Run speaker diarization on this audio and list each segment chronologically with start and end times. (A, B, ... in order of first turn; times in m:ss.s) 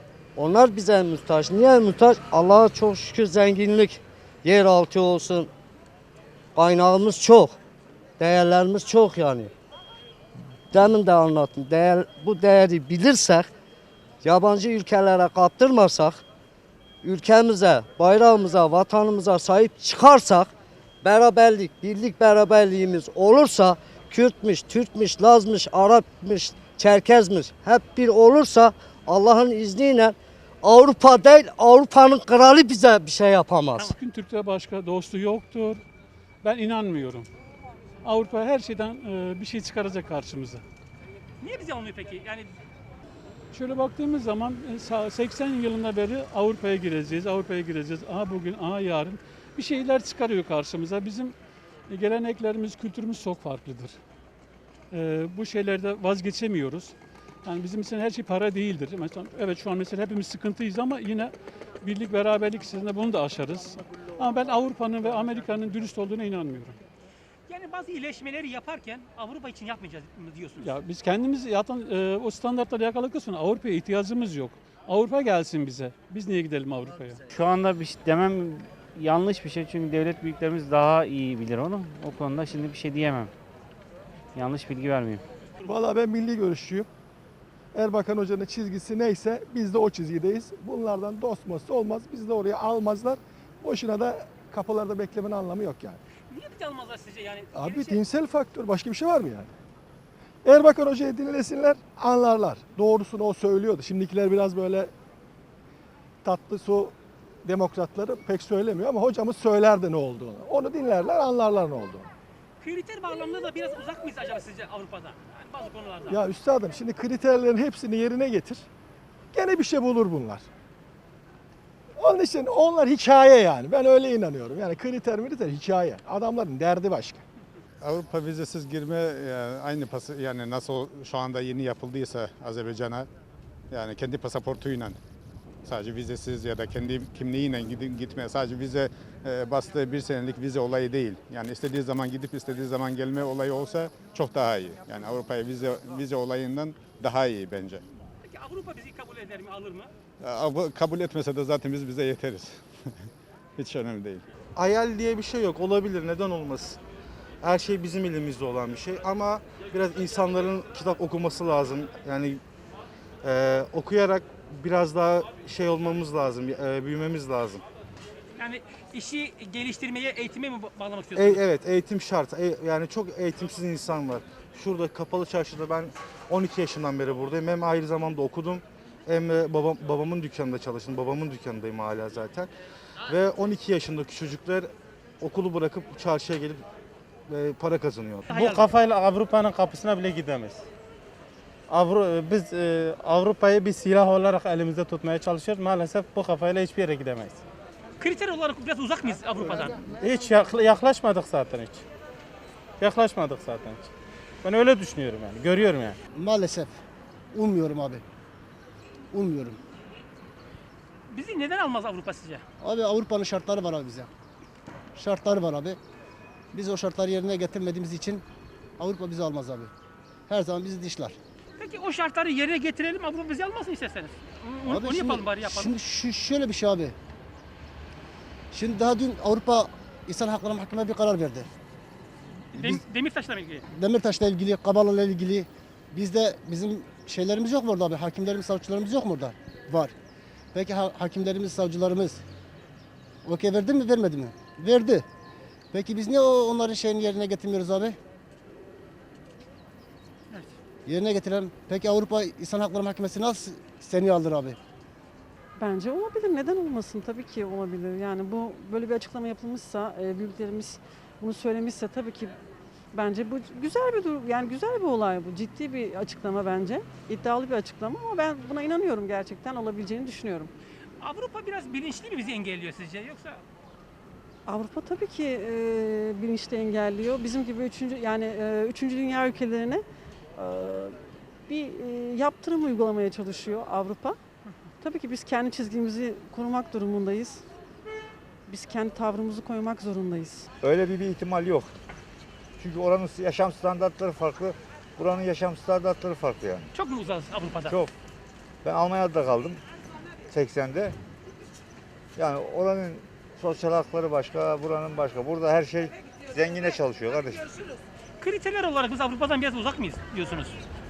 0:00.4-0:05.5 A
0:06.6-0:07.6 A
0:08.2-0:09.5 A
0:10.7-0:13.5 A
0:14.2-0:16.2 A
0:17.0-0:33.9 A
0:33.9-0:35.8 B
0:36.4-0:37.3 B
0:38.0-0:40.6 B
0:41.4-0:42.5 C
0:43.5-0:51.4 B
0:51.9-0:54.0 B
0:54.9-0:56.9 B
0:57.4-1:06.8 B
1:07.5-1:10.7 C
1:10.6-1:17.2 B
1:17.3-1:23.3 D
1:24.4-1:25.2 D
1:25.6-1:26.9 E
1:27.8-1:36.0 E
1:36.3-1:38.0 C
1:37.6-1:39.5 E
1:40.4-1:44.9 E
1:46.2-1:47.0 E
1:47.5-1:52.1 E
1:52.6-1:56.2 C
1:56.1-1:58.7 E
1:59.3-2:00.4 E
2:02.0-2:07.2 E
2:07.8-2:13.1 F
2:13.7-2:15.0 F
2:15.6-2:27.8 F
2:28.3-2:29.9 C
2:30.2-2:32.6 F
2:33.6-2:34.2 F
2:34.6-2:36.8 G
2:37.4-2:42.4 G
2:43.2-2:47.6 G
2:48.4-2:51.5 C
2:51.2-3:02.5 G
3:03.1-3:04.7 G
3:05.2-3:06.6 G
3:07.3-3:08.4 G
3:08.3-3:08.7 C
3:08.4-3:10.6 H
3:11.7-3:17.4 H
3:18.0-3:19.8 C
3:19.9-3:21.8 H
3:22.8-3:23.9 H
3:24.4-3:26.0 H
3:26.1-3:26.7 I
3:27.3-3:28.0 I
3:29.1-3:29.6 I
3:31.1-3:32.4 C
3:32.6-3:34.1 I
3:35.0-3:35.8 I
3:36.5-3:38.2 I
3:38.8-3:39.7 I
3:40.3-3:41.2 I
3:41.6-3:45.7 C
3:44.7-3:47.0 I
3:48.5-3:51.5 I
3:52.5-3:53.6 C
3:52.6-3:52.8 I
3:53.7-3:59.9 I
4:00.5-4:02.2 I
4:03.2-4:05.0 I
4:05.7-4:08.0 I
4:10.9-4:14.6 I
4:15.6-4:22.4 J
4:22.9-4:30.5 J
4:31.0-4:33.4 C
4:34.5-4:39.8 J
4:40.4-4:44.2 J
4:44.8-4:47.4 J
4:48.5-4:50.5 J
4:50.6-4:51.7 K
4:52.6-4:56.7 K
4:56.7-4:57.8 C
4:58.6-4:59.6 K
5:00.3-5:01.0 K
5:02.2-5:07.5 K
5:08.2-5:10.6 C